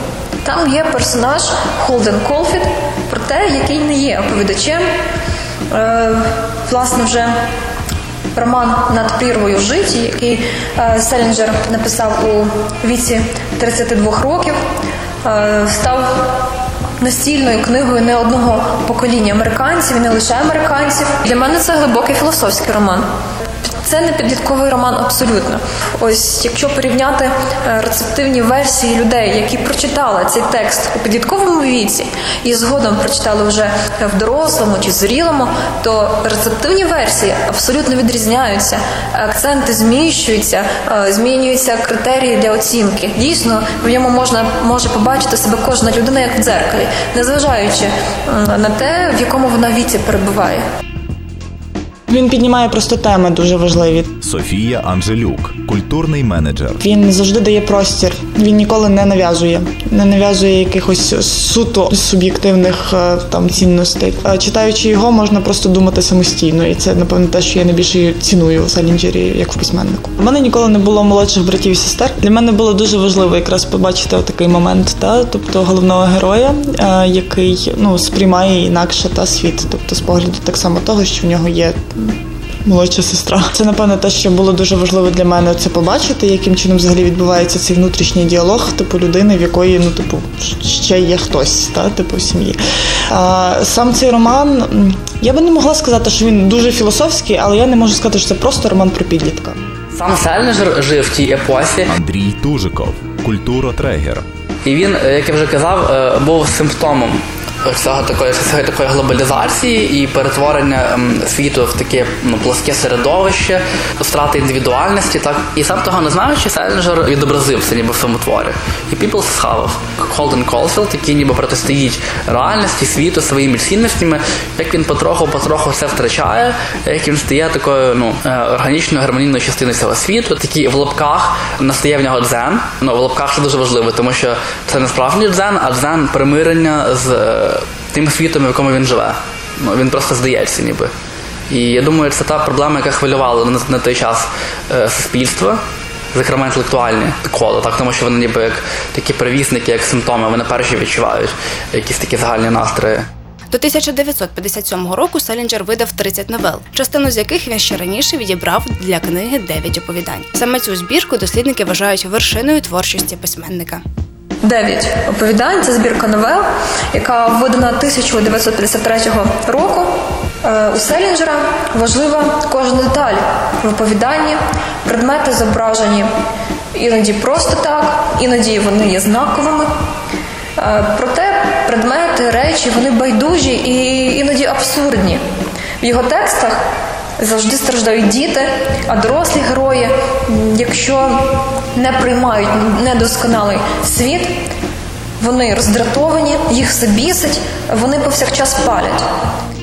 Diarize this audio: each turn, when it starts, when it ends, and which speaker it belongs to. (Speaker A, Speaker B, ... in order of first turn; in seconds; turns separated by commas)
Speaker A: 0.4-4.9, Speaker A: 5.7-7.4, Speaker A: 8.3-14.6, Speaker A: 15.2-23.1, Speaker A: 23.8-50.6, Speaker B: 52.1-54.1, Speaker C: 54.2-56.8, Speaker B: 56.8-92.6, Speaker B: 93.1-99.6, Speaker D: 99.9-101.9, Speaker C: 101.9-104.2, Speaker D: 104.6-140.9, Speaker D: 141.5-145.6, Speaker D: 146.1-153.1, Speaker E: 153.5-163.8, Speaker A: 164.4-176.1, Speaker A: 176.7-179.7, Speaker A: 180.6-185.2, Speaker A: 185.8-186.6, Speaker A: 187.2-194.3, Speaker A: 195.2-199.1